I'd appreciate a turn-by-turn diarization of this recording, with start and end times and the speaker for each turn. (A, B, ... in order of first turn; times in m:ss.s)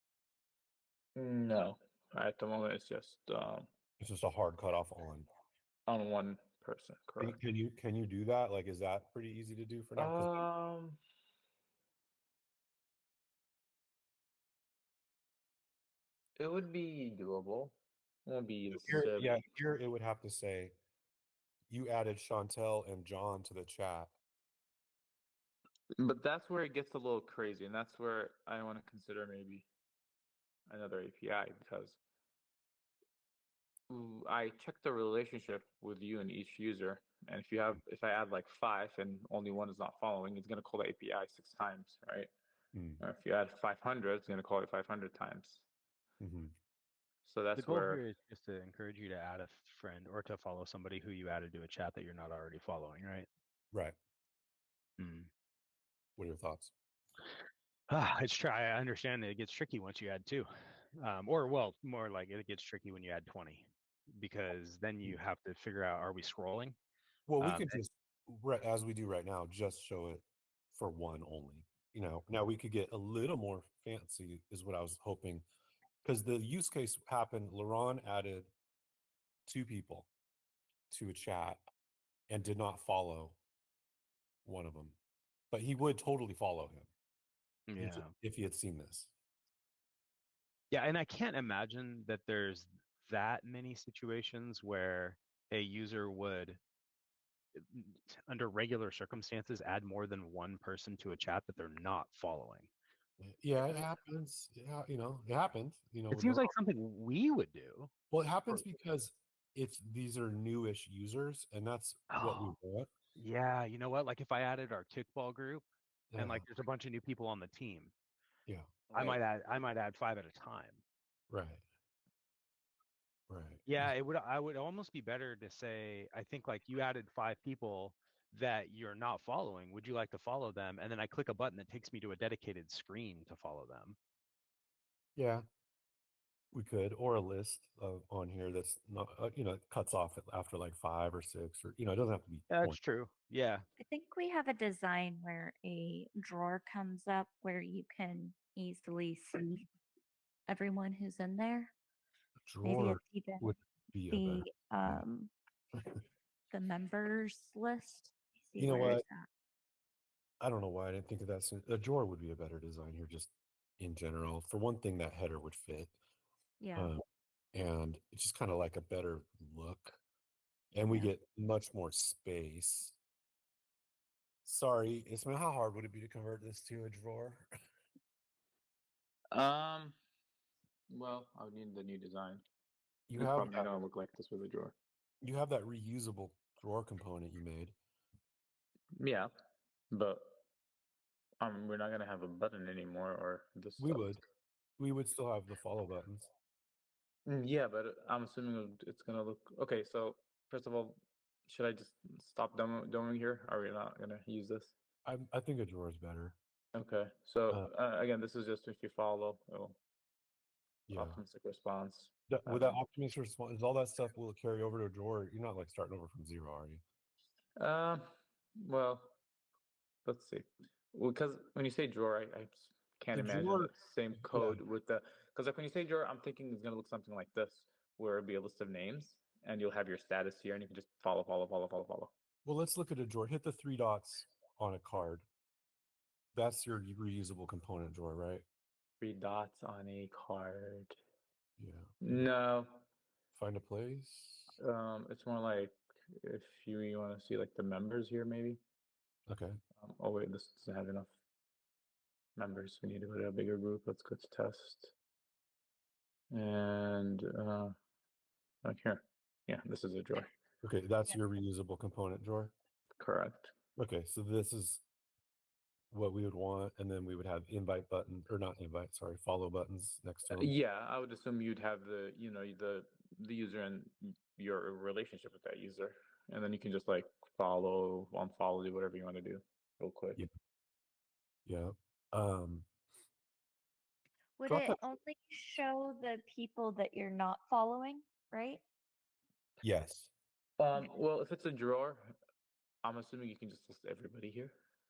0:01.2-0:03.7 A
0:04.0-0:05.3 B
0:05.9-0:07.4 A
0:07.2-0:10.4 B
0:10.0-0:11.0 A
0:16.4-0:19.4 A
0:18.7-0:20.7 B
0:21.7-0:24.1 B
0:26.0-0:29.7 A
0:30.7-0:32.0 A
0:33.9-0:42.3 A
0:42.7-0:43.0 B
0:43.0-0:45.6 A
0:46.2-0:46.5 B
0:47.2-0:48.0 A
0:47.6-0:53.3 C
0:55.0-0:55.3 C
0:56.2-0:56.7 B
0:57.9-1:06.8 C
1:07.3-1:15.4 B
1:07.4-1:07.8 C
1:16.0-1:18.5 B
1:19.4-1:20.1 B
1:20.9-1:21.6 B
1:22.3-1:23.4 B
1:24.4-1:25.0 B
1:25.5-1:26.9 B
1:27.7-1:28.1 C
1:27.8-1:29.1 B
1:30.7-1:36.6 C
1:37.6-1:42.7 C
1:43.2-1:46.5 B
1:46.1-1:47.9 C
1:48.1-1:52.9 B
1:52.1-1:52.6 C
1:53.2-1:55.6 C
1:56.1-1:56.4 B
1:56.2-1:57.9 C
1:58.9-1:59.2 A
1:58.9-2:00.8 C
2:01.3-2:01.6 B
2:03.3-2:03.9 B
2:03.7-2:14.0 C
2:15.2-2:15.4 B
2:16.5-2:22.8 B
2:22.5-2:23.6 C
2:23.8-2:29.6 D
2:30.5-2:31.7 D
2:32.4-2:35.0 B
2:32.6-2:33.5 D
2:34.1-2:35.3 D
2:36.5-2:39.3 D
2:38.6-2:39.0 B
2:40.4-2:45.9 B
2:46.6-2:46.9 D
2:46.8-2:47.0 B
2:47.5-2:50.0 B
2:50.7-2:52.9 B
2:54.4-2:57.5 B
2:59.3-3:00.0 A
3:00.9-3:02.4 A
3:03.1-3:03.7 B
3:03.2-3:04.7 A
3:05.2-3:07.8 B
3:09.0-3:09.3 A
3:09.9-3:10.4 A
3:11.4-3:14.2 A
3:13.8-3:14.2 B
3:14.8-3:16.3 B
3:17.2-3:24.7 A
3:25.0-3:26.4 B
3:26.7-3:29.8 A
3:30.9-3:31.2 B
3:30.9-3:32.8 A
3:32.3-3:36.8 B
3:37.6-3:39.2 A
3:40.0-3:52.1 A
3:43.1-3:44.6 B
3:52.4-3:55.2 B
3:56.3-3:58.4 B
3:59.0-4:01.0 A
4:01.6-4:02.3 B
4:02.0-4:02.8 A
4:03.3-4:04.5 B
4:04.5-4:08.6 A
4:09.3-4:09.6 B
4:09.8-4:11.1 A
4:12.4-4:14.9 A
4:16.3-4:17.8 A
4:18.6-4:20.3 A
4:20.6-4:22.5 B
4:23.0-4:23.5 A
4:23.8-4:24.8 B
4:25.9-4:30.5 B
4:30.3-4:40.2 A
4:41.5-4:42.7 B
4:44.4-4:48.6 D
4:44.5-4:44.8 B
4:49.6-4:50.1 B
4:50.6-4:52.1 A
4:52.8-4:54.6 A